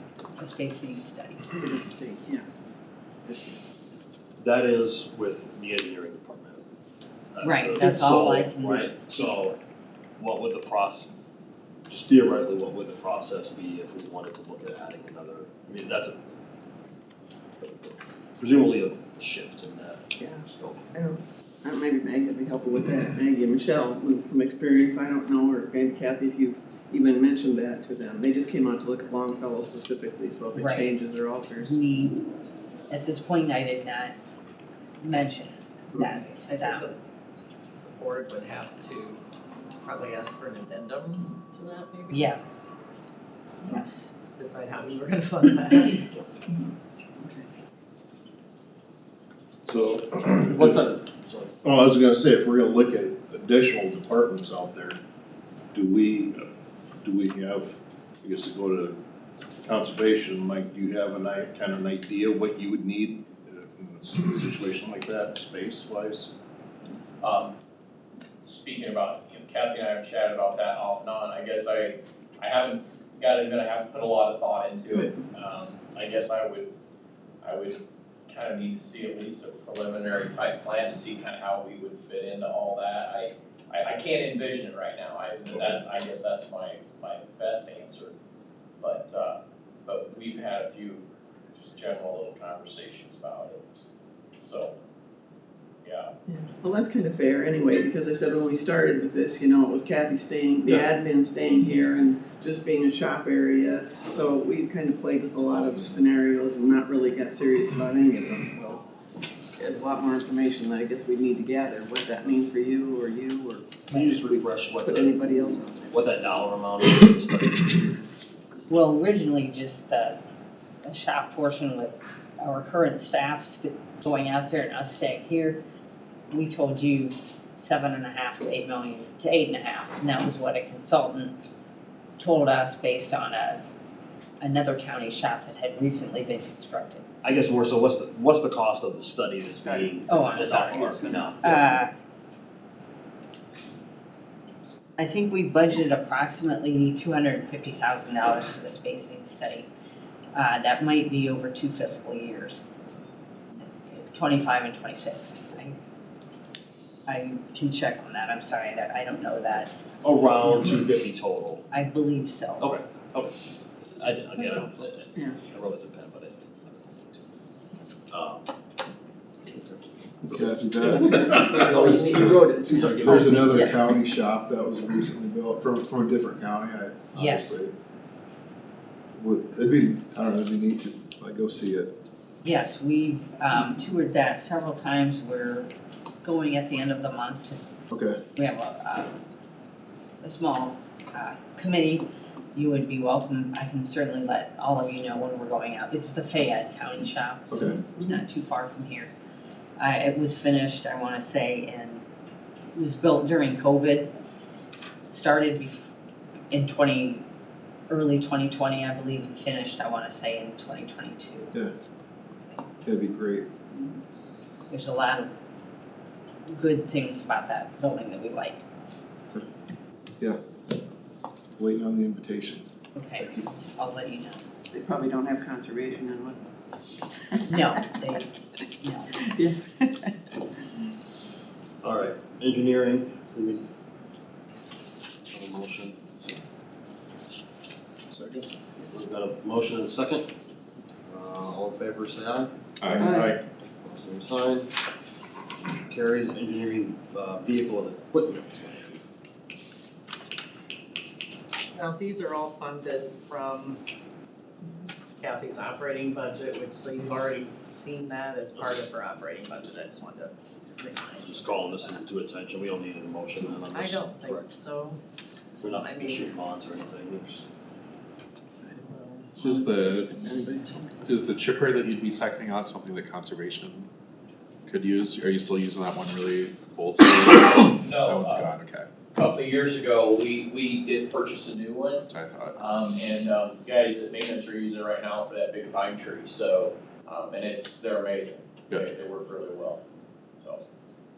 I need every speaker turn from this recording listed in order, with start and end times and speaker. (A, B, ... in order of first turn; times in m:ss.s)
0:00.4-0:01.5 A
0:01.6-0:02.4 B
0:03.2-0:03.6 B
0:04.4-0:06.7 C
0:07.3-0:09.6 C
0:07.4-0:09.5 A
0:10.2-0:11.1 C
0:11.9-0:16.3 C
0:17.6-0:20.8 C
0:20.2-0:31.8 B
0:30.6-0:30.9 A
0:31.6-0:32.2 A
0:32.9-0:34.2 A
0:35.0-0:36.9 A
0:36.4-0:37.0 D
0:37.8-0:39.2 D
0:39.8-0:42.3 D
0:42.1-0:42.4 A
0:43.6-0:44.1 A
0:44.4-0:46.1 D
0:49.6-0:50.9 E
0:50.5-0:51.6 C
0:51.6-0:55.0 E
0:55.7-0:56.5 E
0:57.0-0:58.9 E
0:59.6-1:06.3 E
1:07.2-1:07.5 F
1:08.4-1:16.7 F
1:17.4-1:28.1 F
1:28.8-1:33.6 F
1:34.4-1:34.7 F
1:35.8-1:36.1 F
1:36.3-1:48.8 B
1:49.6-1:55.9 B
1:53.9-1:55.2 C
1:55.9-1:58.0 C
1:58.7-2:00.2 A
2:00.8-2:05.6 A
2:06.3-2:11.3 A
2:12.2-2:13.6 A
2:14.4-2:17.0 A
2:17.2-2:21.7 C
2:19.6-2:21.3 B
2:20.1-2:21.9 A
2:25.0-2:29.7 A
2:30.3-2:32.6 A
2:33.6-2:35.8 A
2:37.1-2:39.7 A
2:40.0-2:41.6 C
2:41.7-2:42.7 A
2:42.6-2:47.3 C
2:48.1-2:48.5 C
2:49.4-2:49.8 C
2:50.3-2:57.7 G
2:51.0-2:53.7 B
2:51.7-2:52.2 H
2:52.7-2:53.8 H
2:57.2-2:57.6 A
2:59.2-3:01.9 G
3:02.4-3:05.7 A
3:06.2-3:07.8 A
3:07.9-3:08.2 G
3:08.4-3:09.1 A
3:10.2-3:19.1 A
3:17.5-3:17.8 G
3:19.8-3:22.0 A
3:22.7-3:24.1 A
3:25.1-3:25.9 A
3:26.5-3:27.2 A
3:27.9-3:31.5 A
3:32.4-3:32.6 A
3:32.8-3:33.5 G
3:34.7-3:35.3 A
3:36.5-3:38.6 A
3:41.6-3:42.7 G
3:43.0-3:44.4 A
3:43.2-3:43.5 G
3:44.7-3:46.4 B
3:47.3-3:47.7 B
3:47.5-3:48.3 A
3:48.8-3:49.1 A
3:49.2-3:50.1 B
3:51.8-3:53.6 C
3:55.3-3:56.2 C
3:58.8-4:00.3 C
4:01.1-4:02.5 C
4:02.8-4:03.3 H
4:03.0-4:03.3 B
4:03.8-4:04.7 C
4:05.6-4:09.0 C
4:11.8-4:13.8 D
4:14.7-4:22.0 D
4:21.2-4:24.6 C
4:23.6-4:25.0 D
4:25.6-4:27.5 C
4:25.7-4:26.4 D
4:28.9-4:29.4 D
4:29.4-4:31.0 B
4:29.4-4:30.2 H
4:31.1-4:33.9 H
4:34.7-4:38.9 H
4:37.8-4:38.5 F
4:39.1-4:42.0 F
4:42.1-4:42.5 H
4:42.6-4:50.6 F